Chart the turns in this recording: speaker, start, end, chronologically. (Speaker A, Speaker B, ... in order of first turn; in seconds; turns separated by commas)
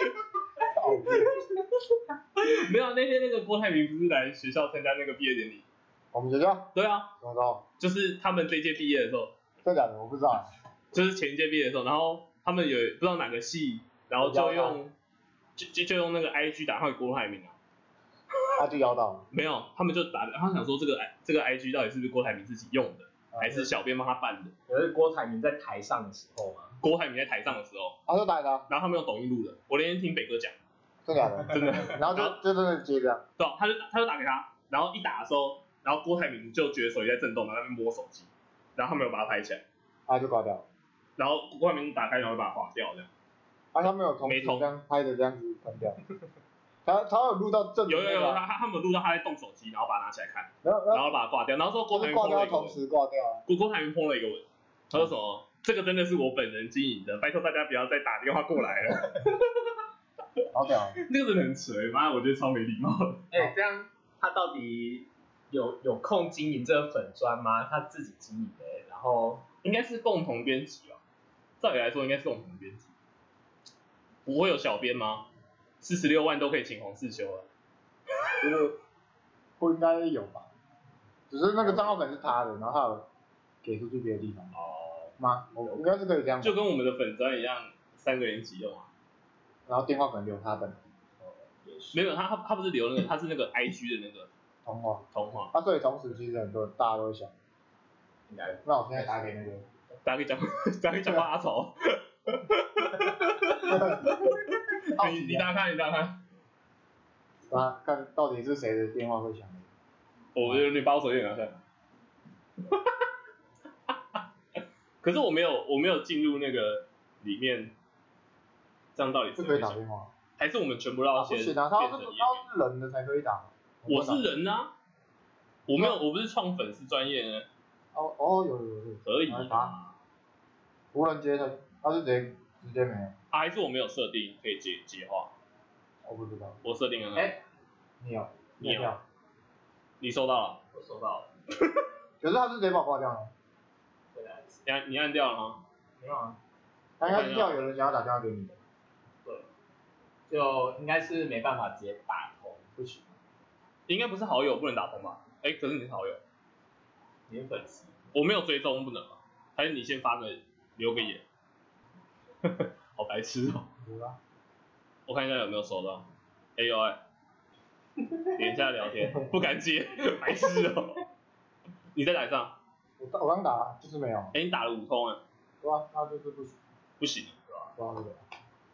Speaker A: 0.7-1.4, Speaker B: 2.4-5.7, Speaker A: 6.1-7.6, Speaker B: 6.8-7.1, Speaker B: 7.8-9.3, Speaker A: 9.6-10.5, Speaker B: 10.9-14.9, Speaker A: 14.2-14.8, Speaker B: 15.6-17.6, Speaker A: 18.6-19.3, Speaker B: 19.3-24.5, Speaker A: 23.3-23.7, Speaker C: 24.7-26.8, Speaker B: 26.8-28.0, Speaker A: 28.1-28.7, Speaker B: 28.7-30.6, Speaker A: 31.1-33.2, Speaker B: 31.5-32.4, Speaker B: 33.4-39.6, Speaker A: 40.1-40.7, Speaker B: 41.2-43.1, Speaker A: 43.7-46.0, Speaker B: 44.2-44.7, Speaker A: 46.9-48.4, Speaker B: 47.9-52.8, Speaker A: 50.6-51.1, Speaker A: 51.9-53.4, Speaker B: 53.5-59.5, Speaker A: 60.5-61.0, Speaker B: 61.0-63.2, Speaker C: 63.3-69.5, Speaker B: 69.6-71.0, Speaker B: 71.6-72.9, Speaker B: 74.3-75.3, Speaker B: 75.8-77.5, Speaker A: 78.4-78.8, Speaker A: 79.6-80.5, Speaker A: 81.3-83.1, Speaker C: 81.6-81.9, Speaker A: 83.6-84.5, Speaker C: 84.5-85.8, Speaker A: 85.2-86.6, Speaker B: 86.4-88.9, Speaker A: 89.7-90.8, Speaker C: 91.2-92.1, Speaker B: 91.9-94.3, Speaker A: 94.7-97.3, Speaker B: 95.1-95.5, Speaker C: 98.3-99.3, Speaker A: 98.7-99.7, Speaker B: 100.0-106.2, Speaker A: 103.7-104.3, Speaker A: 105.0-105.5, Speaker A: 107.5-109.7, Speaker B: 110.3-111.6, Speaker B: 112.7-112.9, Speaker B: 115.0-117.7, Speaker B: 119.0-119.8, Speaker A: 119.4-120.1, Speaker B: 120.4-122.4, Speaker A: 121.2-124.2, Speaker B: 123.9-124.7, Speaker B: 125.7-127.5, Speaker A: 128.0-129.7, Speaker B: 129.1-129.9, Speaker A: 130.9-133.1, Speaker B: 133.3-135.3, Speaker A: 136.1-136.6, Speaker B: 136.6-137.3, Speaker A: 138.0-139.0, Speaker B: 138.6-138.9, Speaker B: 140.0-140.6, Speaker C: 140.7-141.3, Speaker A: 142.2-143.3, Speaker C: 144.2-144.6, Speaker B: 144.7-145.6, Speaker C: 146.0-146.4, Speaker A: 147.0-148.6, Speaker B: 147.1-147.6, Speaker C: 150.3-152.8, Speaker A: 152.8-153.1, Speaker B: 153.9-156.2, Speaker C: 157.3-157.9, Speaker B: 158.1-161.2, Speaker B: 162.5-163.6, Speaker C: 163.0-163.3, Speaker A: 163.8-164.2, Speaker B: 165.1-166.1, Speaker B: 166.6-167.0, Speaker B: 168.3-171.0, Speaker B: 171.9-172.6, Speaker A: 173.0-174.3, Speaker B: 174.3-175.2, Speaker A: 175.6-176.6, Speaker B: 177.0-177.4, Speaker A: 177.8-178.2